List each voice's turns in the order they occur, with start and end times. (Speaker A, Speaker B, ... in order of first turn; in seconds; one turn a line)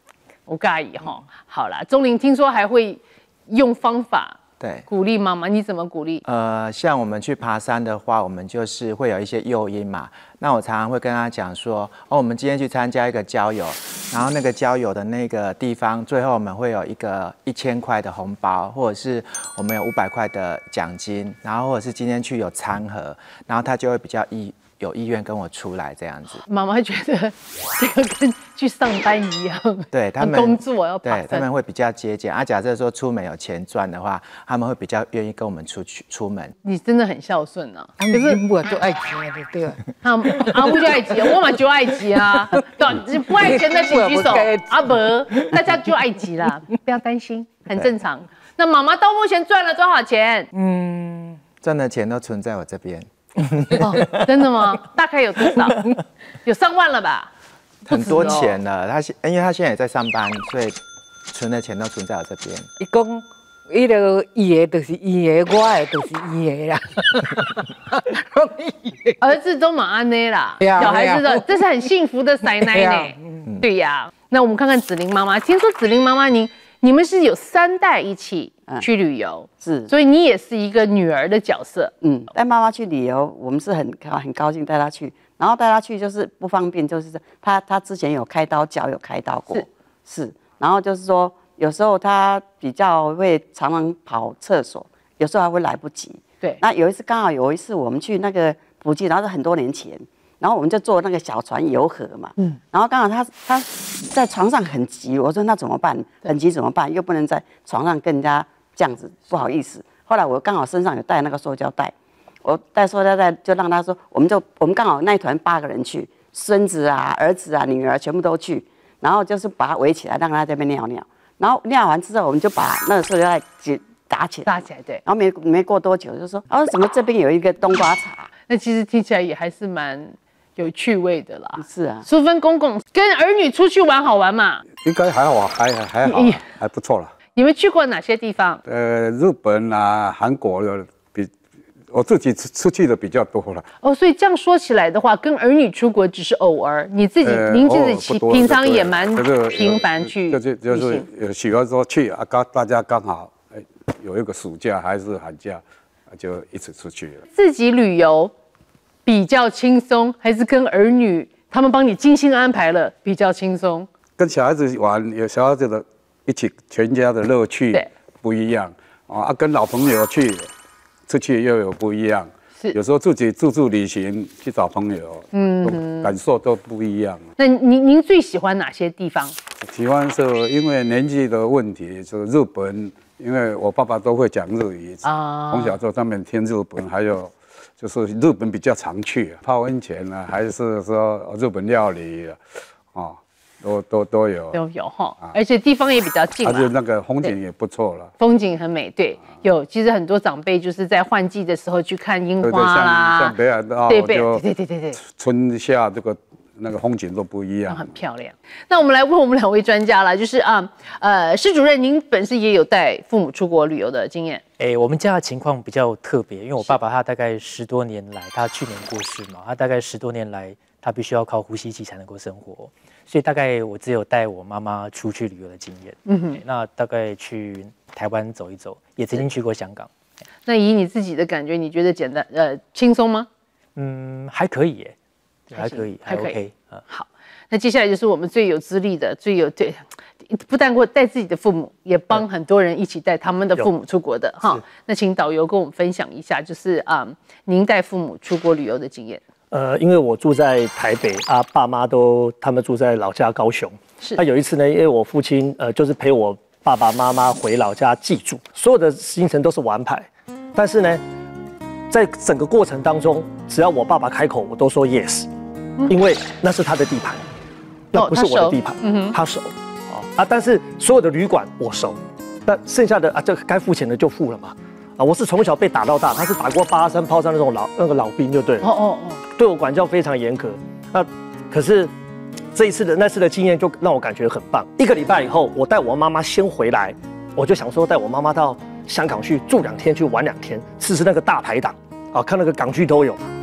Speaker A: 0.5-4.4
Speaker B: 4.6-4.8
Speaker A: 4.9-6.2
Speaker B: 6.2-26.4
Speaker A: 26.4-31.4
Speaker B: 29.9-36.5
Speaker A: 36.6-38.4
Speaker C: 38.0-41.4
Speaker A: 40.0-50.5
Speaker C: 42.1-45.7
Speaker C: 50.5-51.4
Speaker B: 51.6-54.1
Speaker A: 53.8-55.9
Speaker A: 56.4-57.3
Speaker B: 57.9-62.7
Speaker A: 57.9-58.6
Speaker C: 62.8-69.3
Speaker A: 69.2-81.9
Speaker C: 70.6-71.6
Speaker C: 72.5-73.5
Speaker D: 79.6-79.9
Speaker D: 82.0-124.5
Speaker A: 124.5-125.0
Speaker D: 125.0-128.3
Speaker A: 128.5-134.6
Speaker D: 131.6-132.0
Speaker E: 134.8-137.1
Speaker A: 136.0-136.4
Speaker A: 137.3-138.6
Speaker E: 138.6-141.3
Speaker E: 141.9-143.6
Speaker A: 143.8-151.1
Speaker E: 147.2-157.2
Speaker A: 157.3-158.3
Speaker A: 159.1-163.9
Speaker E: 164.2-170.5
Speaker E: 171.1-177.3
Speaker A: 175.3-176.1
Speaker A: 177.4-179.3
Speaker E: 179.6-192.4
Speaker A: 185.0-185.8
Speaker E: 192.9-194.6
Speaker A: 194.5-197.3
Speaker E: 196.4-198.1
Speaker A: 198.2-203.3
Speaker E: 202.4-204.4
Speaker A: 203.9-205.0
Speaker E: 205.0-207.9
Speaker A: 207.7-214.4
Speaker F: 214.6-229.9
Speaker A: 226.1-226.4
Speaker A: 230.4-233.3
Speaker F: 233.8-234.9
Speaker F: 235.5-236.8
Speaker A: 235.5-249.2
Speaker G: 249.5-261.0
Speaker G: 261.9-265.3
Speaker G: 265.9-267.3
Speaker G: 267.9-278.7
Speaker A: 267.9-269.2
Speaker A: 278.6-279.2
Speaker G: 279.3-281.9
Speaker G: 282.5-293.3